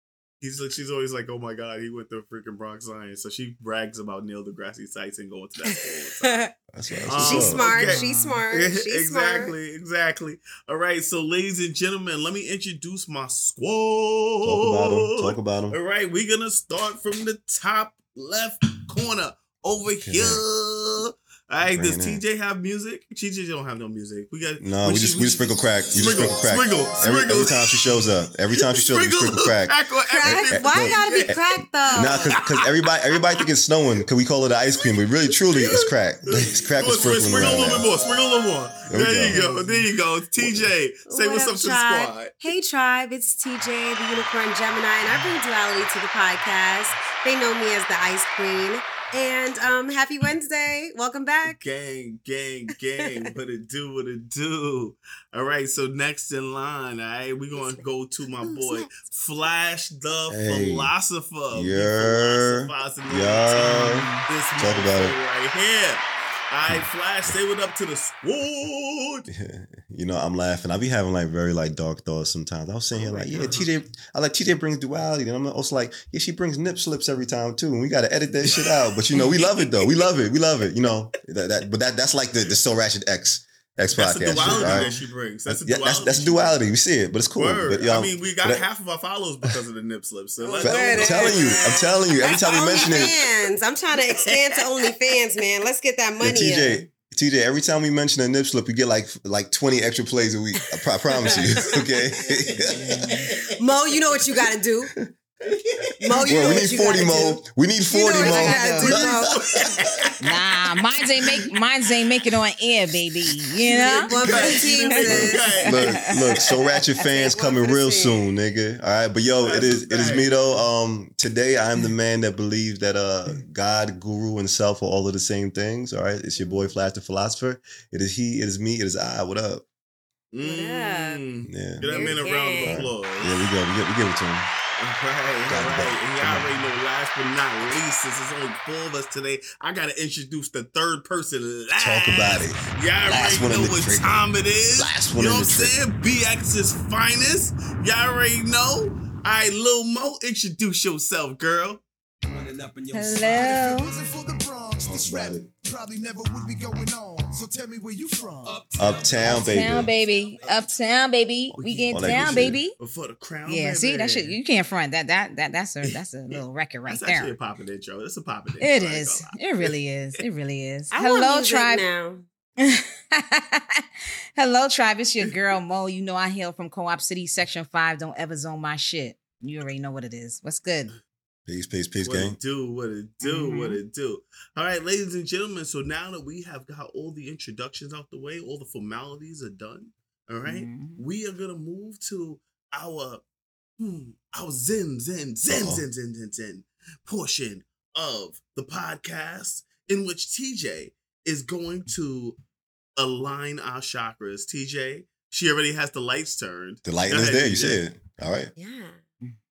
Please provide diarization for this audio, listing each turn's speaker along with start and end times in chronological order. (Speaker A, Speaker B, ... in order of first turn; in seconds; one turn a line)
Speaker A: 0.4-6.4
Speaker B: 5.7-6.5
Speaker C: 6.7-7.7
Speaker B: 7.1-9.5
Speaker A: 7.1-28.0
Speaker D: 7.8-8.4
Speaker C: 14.4-15.8
Speaker C: 20.0-20.4
Speaker C: 21.6-22.2
Speaker C: 24.6-37.9
Speaker A: 28.5-31.4
Speaker B: 30.1-32.4
Speaker A: 32.1-32.6
Speaker A: 34.9-42.4
Speaker B: 36.9-37.8
Speaker C: 38.9-39.4
Speaker C: 40.4-40.7
Speaker B: 41.1-51.6
Speaker A: 51.5-69.3
Speaker B: 57.6-57.8
Speaker B: 58.4-59.0
Speaker C: 60.3-60.9
Speaker C: 61.5-65.1
Speaker D: 63.6-64.2
Speaker C: 69.3-84.9
Speaker A: 72.9-73.7
Speaker A: 78.5-80.0
Speaker A: 83.9-86.6
Speaker B: 84.4-85.0
Speaker C: 85.5-88.6
Speaker A: 87.3-93.3
Speaker B: 90.4-96.8
Speaker C: 90.6-93.1
Speaker A: 94.0-94.9
Speaker C: 96.2-103.0
Speaker B: 101.1-102.0
Speaker D: 102.7-103.3
Speaker A: 102.8-103.5
Speaker B: 103.1-104.9
Speaker A: 105.5-106.6
Speaker B: 106.0-109.6
Speaker C: 106.2-109.8
Speaker D: 108.1-109.0
Speaker A: 108.8-110.2
Speaker D: 110.2-114.5
Speaker B: 113.7-115.7
Speaker A: 113.8-116.1
Speaker C: 114.2-129.6
Speaker D: 115.7-116.4
Speaker B: 117.0-118.2
Speaker A: 119.4-120.3
Speaker A: 130.3-133.4
Speaker B: 130.4-131.2
Speaker C: 131.4-134.5
Speaker B: 131.8-132.8
Speaker A: 134.8-151.8
Speaker C: 135.5-136.5
Speaker C: 141.8-144.2
Speaker C: 144.8-145.8
Speaker E: 152.2-160.7
Speaker D: 152.9-153.9
Speaker C: 154.8-155.5
Speaker C: 158.8-159.9
Speaker D: 159.2-162.8
Speaker A: 161.5-164.4
Speaker C: 161.9-162.6
Speaker D: 163.5-167.3
Speaker A: 165.8-169.7
Speaker D: 168.6-171.8
Speaker B: 170.9-172.3
Speaker D: 172.6-173.8
Speaker D: 174.3-180.9
Speaker C: 181.5-182.4
Speaker A: 182.0-193.2
Speaker D: 183.2-183.8
Speaker D: 190.4-191.0
Speaker A: 193.8-202.3
Speaker C: 195.5-195.8
Speaker A: 202.9-207.8
Speaker C: 206.8-208.5
Speaker B: 208.6-209.0